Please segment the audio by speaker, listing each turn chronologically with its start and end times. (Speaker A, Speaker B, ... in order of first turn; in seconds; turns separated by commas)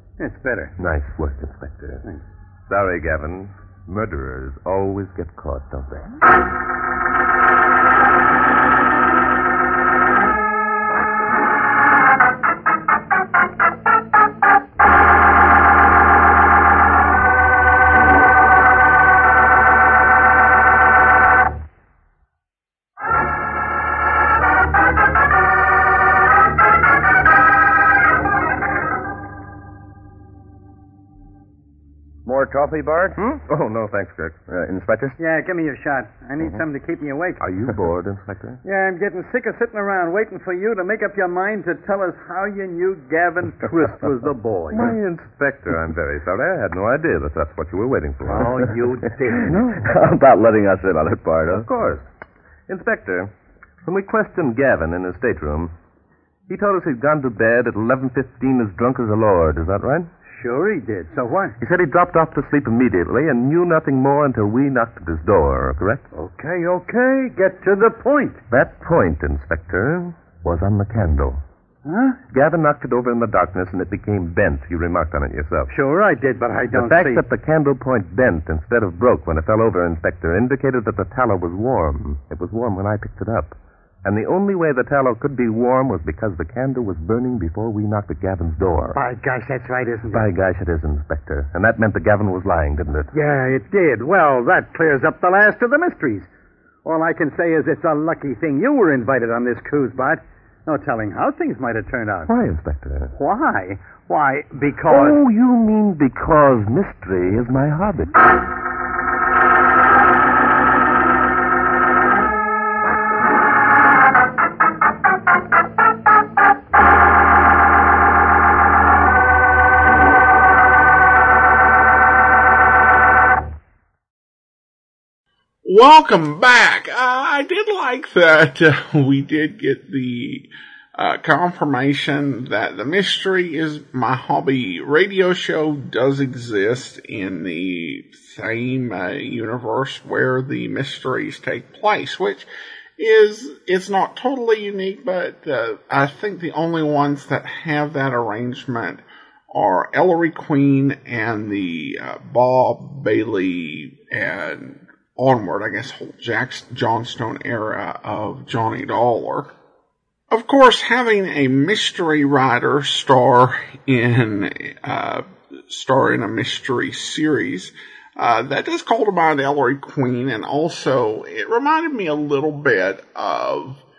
Speaker A: 0.2-0.7, Speaker B: 0.8-2.0, Speaker B: 2.7-6.2, Speaker C: 32.2-33.2, Speaker B: 33.2-34.5, Speaker C: 34.5-35.2, Speaker A: 35.2-37.4, Speaker B: 37.4-38.6, Speaker A: 38.6-44.9, Speaker B: 44.7-48.7, Speaker A: 48.2-49.7, Speaker B: 49.4-49.9, Speaker C: 49.5-51.7, Speaker B: 51.5-52.0, Speaker B: 52.7-53.3, Speaker B: 53.8-55.7, Speaker B: 56.5-60.1, Speaker A: 60.4-61.6, Speaker B: 61.6-66.1, Speaker A: 66.1-68.4, Speaker B: 68.5-71.4, Speaker A: 71.8-72.2, Speaker B: 72.3-75.7, Speaker A: 75.7-77.2, Speaker B: 76.7-89.0, Speaker A: 89.0-90.2, Speaker B: 90.1-93.1, Speaker A: 93.1-96.3, Speaker A: 96.8-102.3, Speaker B: 102.3-103.1, Speaker A: 103.1-105.2, Speaker B: 104.9-108.2, Speaker D: 125.6-142.5, Speaker D: 143.0-159.5, Speaker D: 160.3-173.8